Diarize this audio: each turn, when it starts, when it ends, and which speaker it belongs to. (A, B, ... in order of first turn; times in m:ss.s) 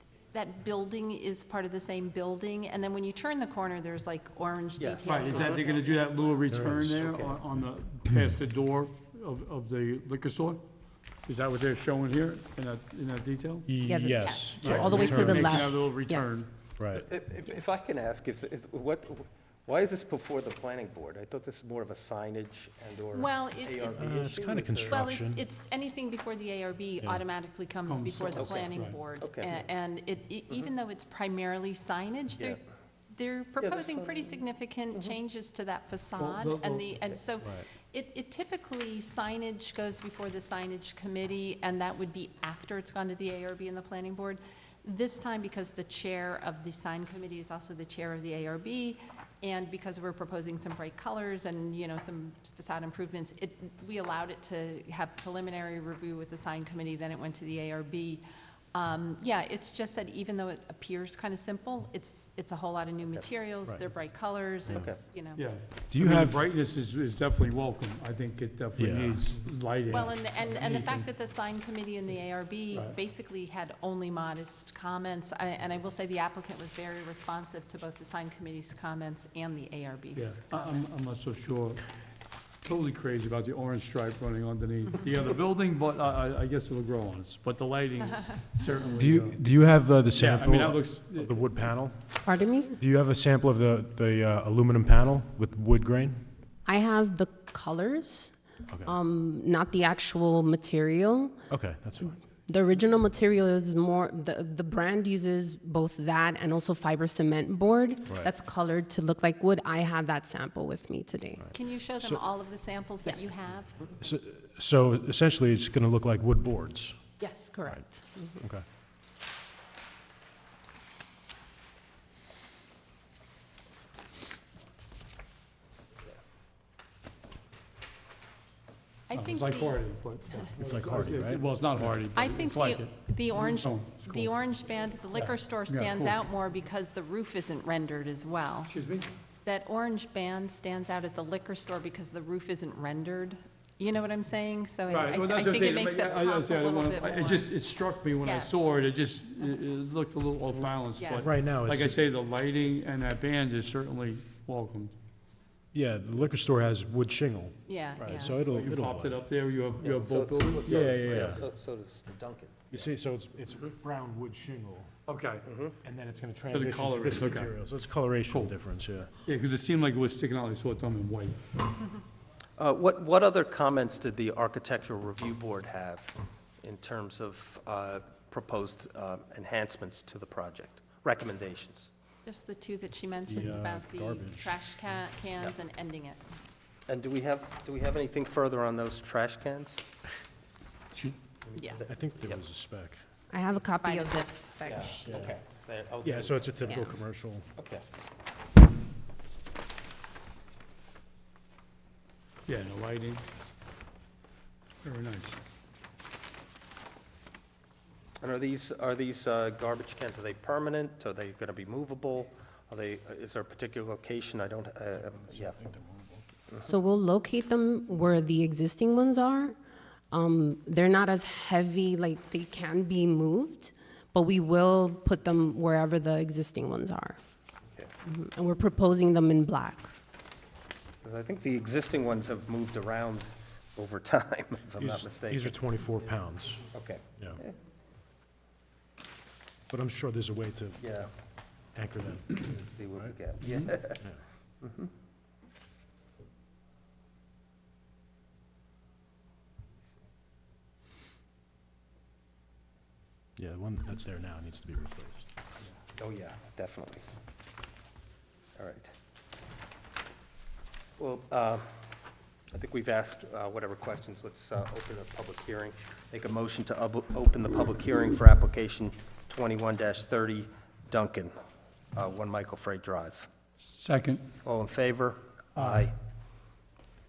0:00.3-0:06.5 A
0:04.8-0:05.6 B
0:05.1-0:10.6 C
0:06.5-0:07.0 D
0:06.7-0:07.4 B
0:11.2-0:13.7 C
0:13.7-0:15.8 D
0:13.8-0:16.4 E
0:14.2-0:14.9 A
0:14.6-0:16.5 C
0:16.8-0:17.0 D
0:16.9-0:25.0 B
0:23.1-0:24.1 A
0:23.9-0:25.4 D
0:24.8-1:05.4 A
0:27.8-0:29.0 C
0:28.3-0:29.5 B
0:33.6-0:35.1 B
0:36.2-0:37.1 C
1:04.7-1:05.0 B
1:05.4-1:11.1 C
1:05.9-1:06.4 D
1:08.8-1:09.3 D
1:09.9-1:20.8 A
1:12.7-1:13.0 C
1:20.1-1:21.8 C
1:22.6-1:29.4 C
1:29.0-1:36.2 D
1:30.1-1:31.3 C
1:32.2-1:32.8 E
1:36.6-1:38.3 E
1:38.7-1:38.9 D
1:38.8-1:41.4 E
1:41.5-1:42.1 D
1:42.5-1:51.5 E
1:48.1-1:48.3 D
1:51.4-1:52.2 D
1:51.5-1:53.7 A
1:53.0-1:53.3 E
1:54.0-1:57.0 D
1:57.2-1:57.5 A
1:57.3-1:58.3 E
2:09.1-2:09.8 A
2:09.1-2:14.4 C
2:10.6-2:11.4 D
2:12.1-2:18.7 A
2:15.1-2:16.2 C
2:18.7-2:19.1 C
2:19.4-2:27.5 A
2:24.9-2:34.9 C
2:28.2-2:28.5 A
2:31.0-2:31.2 A
2:31.2-2:32.0 D
2:35.7-2:39.2 D
2:37.6-2:38.3 A
2:38.3-2:41.4 C
2:39.8-2:42.9 B
2:40.7-2:41.4 D
2:42.7-2:44.9 D
2:45.1-2:45.4 C
2:45.4-2:45.8 B
2:45.8-2:49.1 D
2:46.5-2:47.6 C
2:48.3-2:48.5 C
2:49.2-2:51.4 C
2:52.6-3:01.9 B
3:02.2-3:06.2 A
3:03.3-3:04.6 D
3:06.9-3:09.8 B
3:11.4-3:12.4 B
3:11.5-3:11.8 A
3:11.9-3:13.0 D
3:13.3-3:15.3 E
3:13.7-3:14.7 A
3:14.6-3:16.8 B
3:15.0-3:15.3 D
3:16.0-3:17.4 D
3:17.6-3:17.8 B
3:22.4-3:23.2 C
3:24.8-3:25.4 C
3:28.2-3:35.6 B
3:35.3-3:36.2 D
3:36.6-3:39.6 E
3:40.1-3:47.2 E
3:48.0-3:49.9 E
3:51.0-3:55.5 B
3:54.8-3:57.4 D
3:56.7-3:57.6 B
3:59.7-4:00.8 D
4:00.8-4:01.1 B
4:01.7-4:02.4 D
4:02.3-4:04.0 B
4:03.0-4:04.2 D
4:04.6-4:04.9 B
4:13.4-4:15.3 D
4:15.6-4:17.0 B
4:18.6-4:18.9 B
4:21.0-4:21.8 B
4:22.5-4:31.3 B
4:31.9-4:33.3 B
4:33.7-4:34.2 C
4:34.4-4:35.9 B